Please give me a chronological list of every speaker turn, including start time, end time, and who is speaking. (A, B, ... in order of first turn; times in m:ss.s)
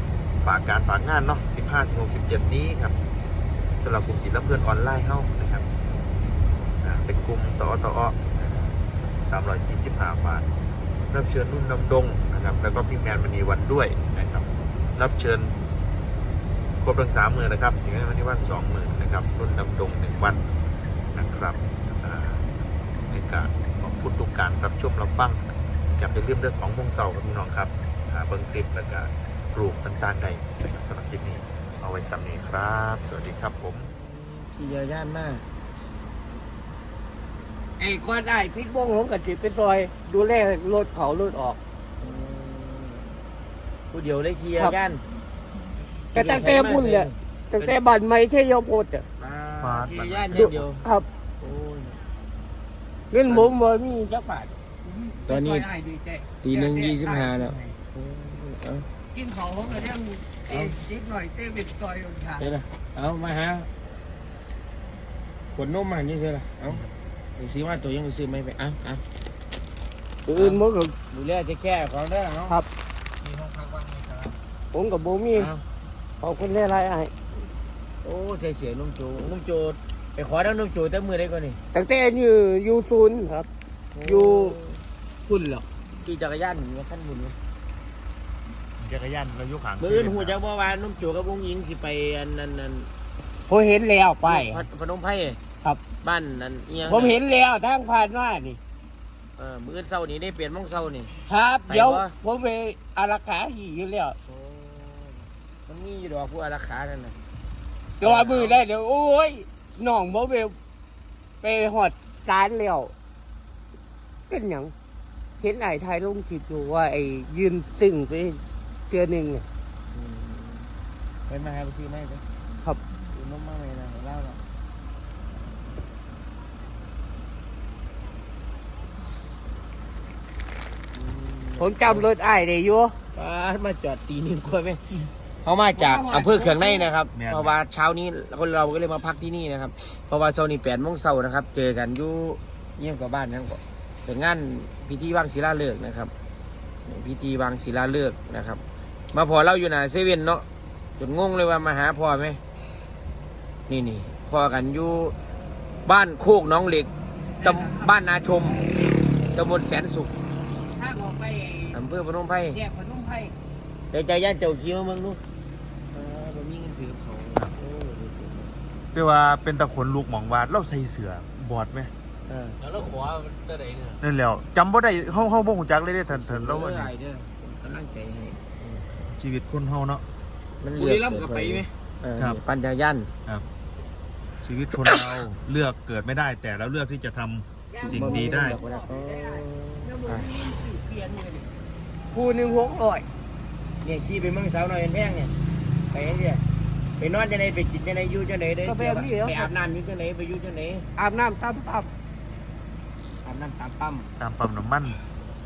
0:00.4-0:02.9 A
0:03.8-0:05.6 A
0:06.8-0:10.4 A
0:11.1-0:15.5 A
0:16.8-0:20.4 A
0:21.1-0:22.4 A
0:23.1-0:25.4 A
0:25.9-0:33.9 A
0:33.9-0:35.4 B
0:37.8-0:41.6 C
0:42.0-0:43.2 B
0:43.9-0:45.0 B
0:46.1-0:47.8 B
0:46.1-0:49.0 C
0:49.2-0:50.8 B
0:49.6-0:50.6 A
0:50.3-0:51.1 C
0:51.4-0:52.0 B
0:53.1-0:57.8 C
0:53.3-0:53.5 B
0:55.3-0:55.7 B
0:56.4-0:58.9 B
0:59.1-1:02.5 C
1:00.5-1:00.8 B
1:02.4-1:03.7 B
1:05.5-1:06.8 B
1:07.4-1:09.0 B
1:10.2-1:10.9 C
1:10.3-1:12.6 B
1:13.2-1:14.4 D
1:14.7-1:15.5 C
1:15.3-1:15.6 B
1:16.2-1:17.1 C
1:18.0-1:21.6 B
1:21.7-1:23.5 C
1:23.9-1:24.8 B
1:24.0-1:24.6 C
1:25.2-1:25.6 C
1:26.0-1:27.4 B
1:28.8-1:30.4 A
1:29.8-1:32.9 B
1:33.5-1:34.6 C
1:34.2-1:35.4 B
1:35.6-1:35.9 C
1:36.0-1:37.2 B
1:36.9-1:38.6 C
1:39.4-1:41.1 B
1:41.2-1:44.2 C
1:41.7-1:42.1 B
1:44.2-1:47.2 B
1:48.0-1:50.6 C
1:48.0-1:48.6 B
1:51.4-1:52.9 C
1:54.3-1:54.7 C
1:55.4-1:59.4 C
1:59.9-2:00.7 B
2:01.3-2:02.2 B
2:03.1-2:04.4 B
2:10.9-2:12.1 B
2:11.6-2:13.0 C
2:13.1-2:26.1 B
2:15.7-2:16.9 C
2:17.1-2:17.6 A
2:26.8-2:30.4 B
2:31.0-2:32.4 B
2:33.7-2:35.2 B
2:35.8-2:38.7 B
2:37.4-2:37.9 C
2:39.3-2:40.1 B
2:40.7-2:41.8 C
2:41.7-2:42.6 B
2:42.5-2:43.3 C
2:43.9-2:45.2 B
2:45.9-2:48.6 B
2:48.9-2:51.9 A
2:52.3-2:52.6 B
2:52.6-2:54.0 D
2:54.0-2:56.9 A
2:56.1-2:58.9 B
2:59.1-3:00.0 A
3:00.6-3:03.1 B
3:00.8-3:01.7 D
3:04.4-3:08.6 A
3:07.7-3:11.5 C
3:07.8-3:10.3 B
3:12.1-3:13.0 C
3:13.8-3:15.3 B
3:15.9-3:16.4 B
3:17.0-3:20.9 B
3:18.6-3:19.5 C
3:21.0-3:21.9 C
3:23.2-3:24.1 B
3:24.2-3:25.0 A